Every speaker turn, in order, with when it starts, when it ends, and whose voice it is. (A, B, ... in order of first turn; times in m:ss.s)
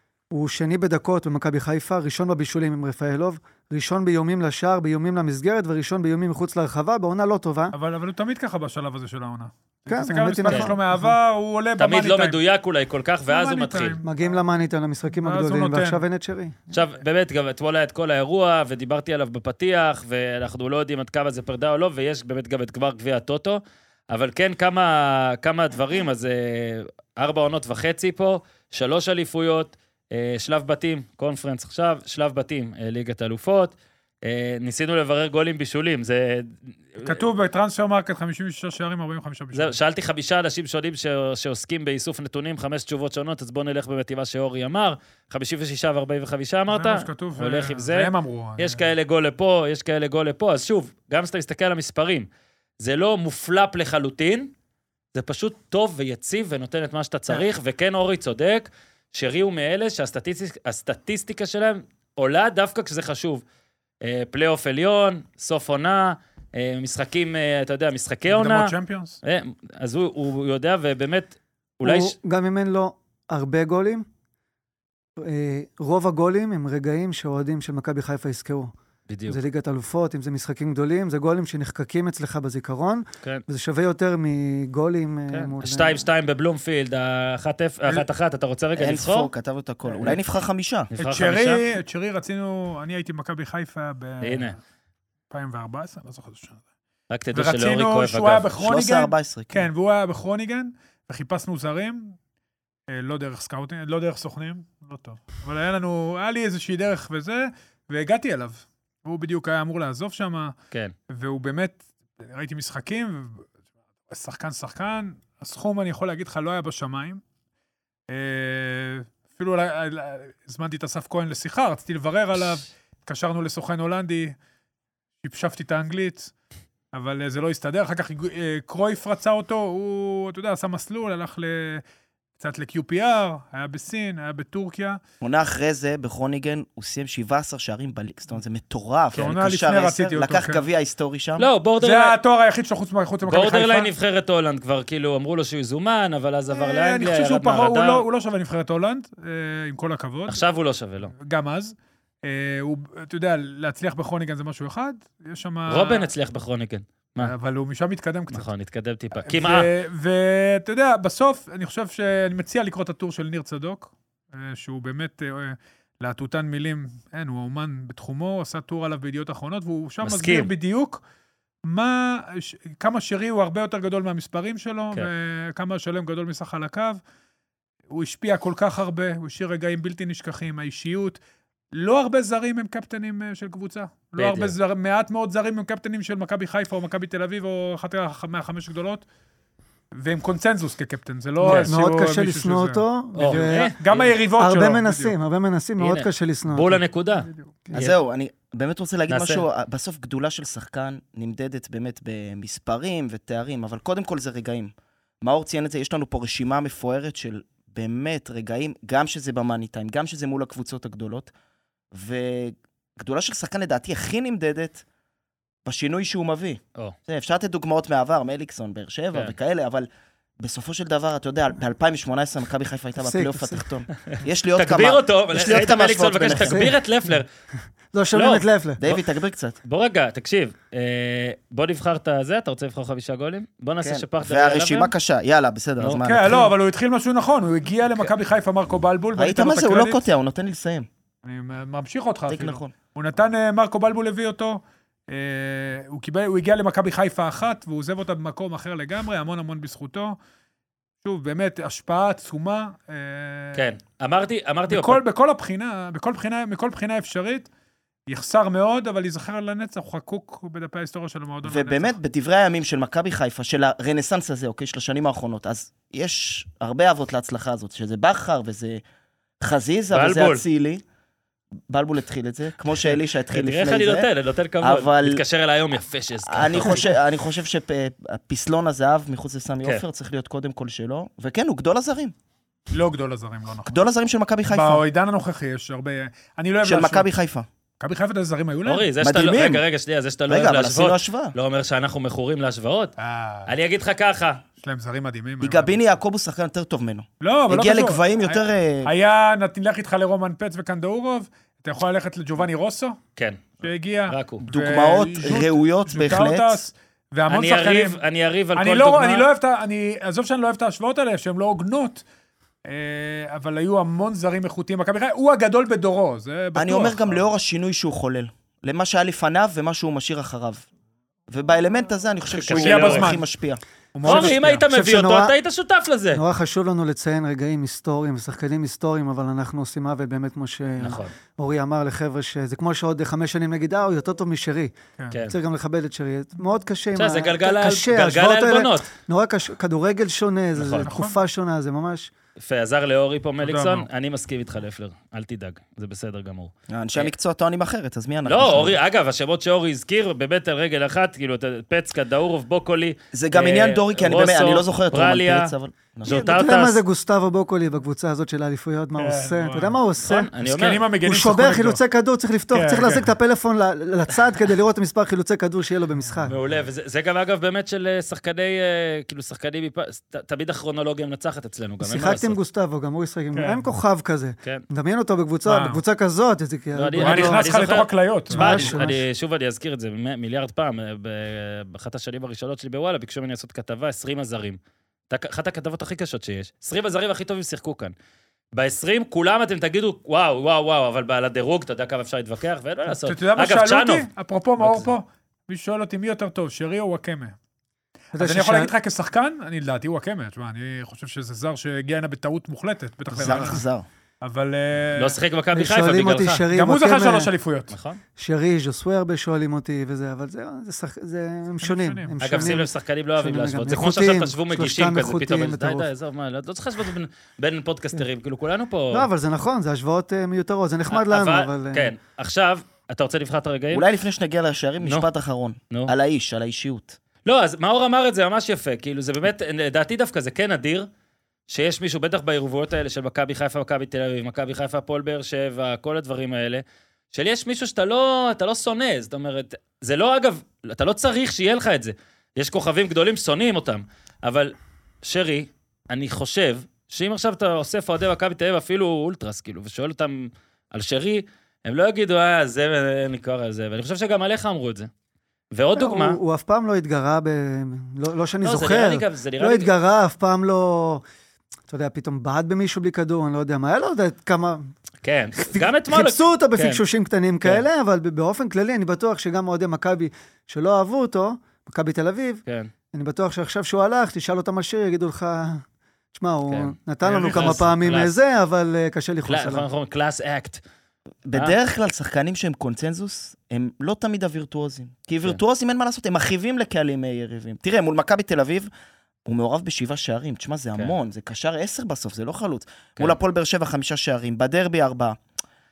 0:00.3-0:07.8 A
0:07.7-0:12.4 B
0:09.9-0:11.2 A
0:10.5-0:10.7 C
0:11.8-0:14.0 C
0:13.3-0:14.3 B
0:14.0-0:16.7 A
0:15.1-0:16.0 B
0:16.7-0:37.2 C
0:37.0-0:39.8 B
0:39.5-0:52.3 C
0:46.7-0:48.8 B
0:52.8-0:54.5 C
0:55.1-1:03.4 C
1:04.0-1:12.2 C
1:08.3-1:09.2 B
1:11.8-1:14.1 A
1:15.2-1:18.7 A
1:19.1-1:19.4 C
1:19.3-1:26.1 A
1:25.3-1:29.3 C
1:28.8-1:30.9 D
1:30.9-1:31.6 C
1:31.0-1:34.5 B
1:34.2-1:34.6 C
1:35.3-1:36.6 B
1:37.1-1:38.5 C
1:37.3-1:42.2 B
1:38.6-1:39.7 D
1:42.9-1:50.5 B
1:51.1-1:53.5 B
1:54.1-1:57.2 B
1:58.1-2:04.4 B
2:05.2-2:06.3 B
2:06.9-2:11.8 B
2:12.4-2:15.0 B
2:15.2-2:21.5 D
2:19.1-2:20.6 B
2:21.4-2:22.2 C
2:21.8-2:23.9 B
2:23.2-2:28.0 C
2:26.5-2:30.4 B
2:30.3-2:31.1 C
2:31.1-2:36.1 B
2:35.7-2:37.3 C
2:37.2-2:38.5 B
2:38.3-2:39.7 C
2:39.2-2:51.0 B
2:50.0-2:50.5 C
2:51.7-2:57.0 B
2:57.9-3:01.2 B
3:01.7-3:09.0 B
3:04.2-3:04.6 C
3:09.9-3:15.2 B
3:11.4-3:11.7 C
3:11.4-3:13.8 A
3:13.2-3:14.1 C
3:14.4-3:16.8 A
3:15.8-3:18.0 C
3:17.7-3:31.3 D
3:19.1-3:19.4 C
3:31.9-3:34.8 D
3:35.6-3:39.9 D
3:40.4-3:46.7 D
3:43.0-3:43.7 A
3:44.1-3:47.3 C
3:46.4-3:46.8 A
3:47.9-3:48.8 A
3:48.1-3:49.0 C
3:48.8-3:49.6 D
3:49.6-3:54.9 C
3:53.8-3:56.5 D
3:56.0-4:00.0 B
3:59.2-4:00.9 D
4:01.2-4:10.2 B
4:02.3-4:02.7 D
4:11.0-4:13.6 B
4:13.5-4:15.0 C
4:14.7-4:17.5 B
4:18.1-4:22.0 B
4:21.4-4:28.8 D
4:29.4-4:30.8 D
4:29.9-4:30.4 C
4:31.7-4:34.1 D
4:33.3-4:36.9 C
4:34.6-4:35.2 D
4:36.3-4:42.1 D
4:42.7-4:43.8 B
4:43.7-4:44.8 D
4:44.5-4:47.1 B
4:46.6-4:47.5 D
4:47.8-4:48.9 B
4:48.6-4:52.9 C
4:49.0-4:49.6 D
4:50.3-4:51.4 D
4:53.0-4:53.5 B
4:53.5-4:54.4 C
4:54.6-4:55.8 B
4:55.4-4:58.9 D
4:57.2-5:03.0 B
5:03.2-5:04.5 C
5:03.6-5:08.0 B
5:04.5-5:06.6 D
5:07.3-5:09.3 C
5:08.6-5:12.0 B
5:12.6-5:17.3 B
5:16.6-5:20.7 D
5:21.3-5:23.6 D
5:22.3-5:23.1 C
5:22.5-5:23.2 B
5:24.0-5:24.6 B
5:24.0-5:26.2 C
5:24.1-5:25.3 A
5:26.1-5:34.7 A
5:30.8-5:31.1 C
5:35.3-5:42.1 A
5:37.0-5:38.9 C
5:40.6-5:40.9 C
5:40.8-5:41.2 B
5:42.4-5:47.1 C
5:43.4-5:43.9 B
5:46.7-5:48.8 D
5:48.3-5:55.5 C
5:53.1-5:56.3 D
5:56.0-5:56.8 C
5:56.1-6:00.3 A
5:59.0-5:59.8 B
6:00.0-6:00.8 C
6:00.4-6:01.8 B
6:01.0-6:06.4 A
6:02.5-6:03.1 B
6:06.3-6:12.4 C
6:11.8-6:17.7 A
6:13.3-6:13.6 B
6:15.5-6:15.8 B
6:16.8-6:24.6 C
6:17.0-6:18.8 B
6:18.3-6:19.0 A
6:25.1-6:27.9 C
6:28.5-6:34.1 C
6:32.9-6:37.4 B
6:34.6-6:34.9 C
6:38.1-6:38.7 A
6:38.2-6:43.6 B
6:43.1-6:43.9 D
6:44.2-6:45.2 B
6:45.0-6:46.4 C
6:45.5-6:47.3 A
6:46.5-6:47.7 B
6:47.7-6:48.0 C
6:48.2-6:55.9 A
6:51.6-6:52.2 B
6:52.2-6:59.1 C
6:58.9-7:01.9 A
7:00.9-7:03.8 C
7:03.7-7:07.0 D
7:07.2-7:10.9 C
7:11.5-7:34.9 C
7:35.5-7:36.2 C
7:35.8-7:41.0 A
7:38.4-7:39.7 C
7:41.7-7:44.7 A
7:45.0-7:46.8 C
7:45.4-7:55.6 A
7:52.5-7:52.7 C
7:56.1-7:59.7 A
7:56.5-7:58.1 C
7:57.0-7:57.6 B
7:59.3-8:00.6 C
8:01.3-8:08.7 D
8:09.3-8:15.2 D